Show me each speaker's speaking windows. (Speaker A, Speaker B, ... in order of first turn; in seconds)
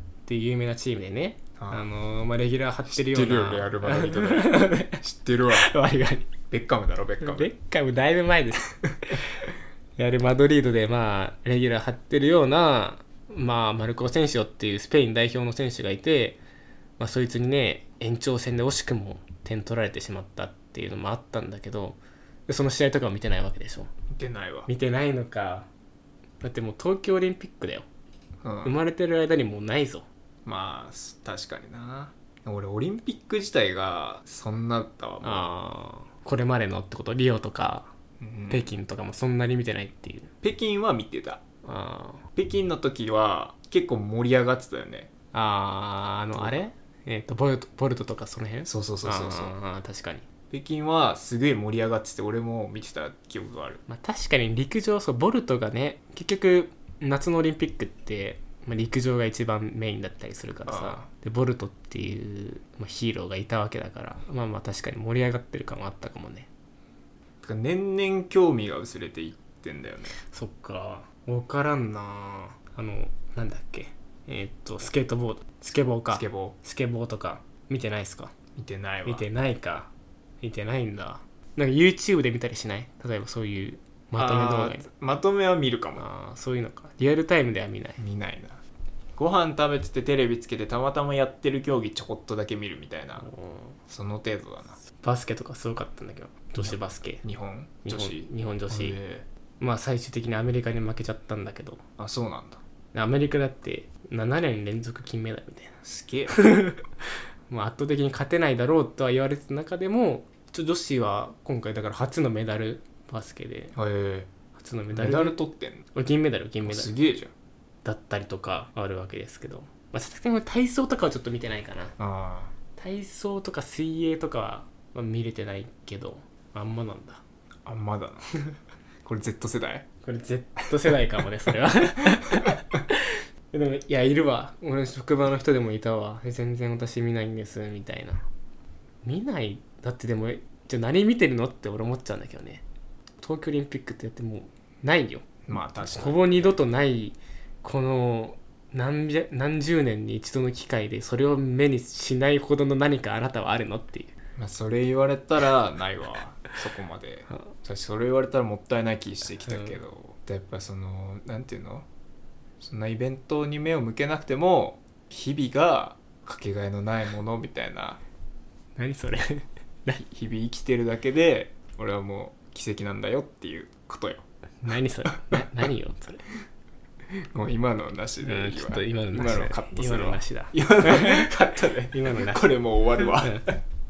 Speaker A: 0.2-6.3, 7.2-9.4, 10.0-16.4, 17.0-23.9, 24.7-25.7, 26.4-27.9, 28.6-30.1, 35.2-37.9, 38.5-40.3, 41.6-42.2, 45.3-50.2, 53.9-66.5, 70.2-78.3, 79.0-79.9, 80.4-84.8, 86.0-88.0, 93.2-93.8, 95.0-97.2, 97.8-99.0, 99.6-101.8, 102.9-105.7, 106.3-106.8, 107.5-113.7, 114.5-115.4, 115.9-116.9, 117.8-122.0, 122.8-127.2, 130.0-138.2, 139.0-142.6, 143.2-154.1, 159.4-159.8, 168.8-170.0, 174.6-176.2, 178.2-183.4
Speaker B: 1.6-1.9, 2.9-5.7, 6.5-7.5, 24.1-24.7, 28.4-28.8, 30.4-35.5, 38.2-38.7, 40.4-41.4, 42.4-45.1, 46.3-46.7, 48.6-49.5, 50.5-53.8, 60.6-61.1, 67.4-70.2, 76.1-76.5, 78.5-79.3, 84.2-86.0, 88.0-88.6, 89.1-93.3, 93.9-94.8, 96.6-99.2, 102.0-102.6, 105.8-106.3, 113.7-114.3, 114.9-115.8, 116.6-117.3, 122.0-122.5, 127.6-128.3, 129.0-129.9, 145.5-146.6, 154.4-161.9, 162.6-168.0, 170.0-174.2, 175.1-175.4, 177.2-183.6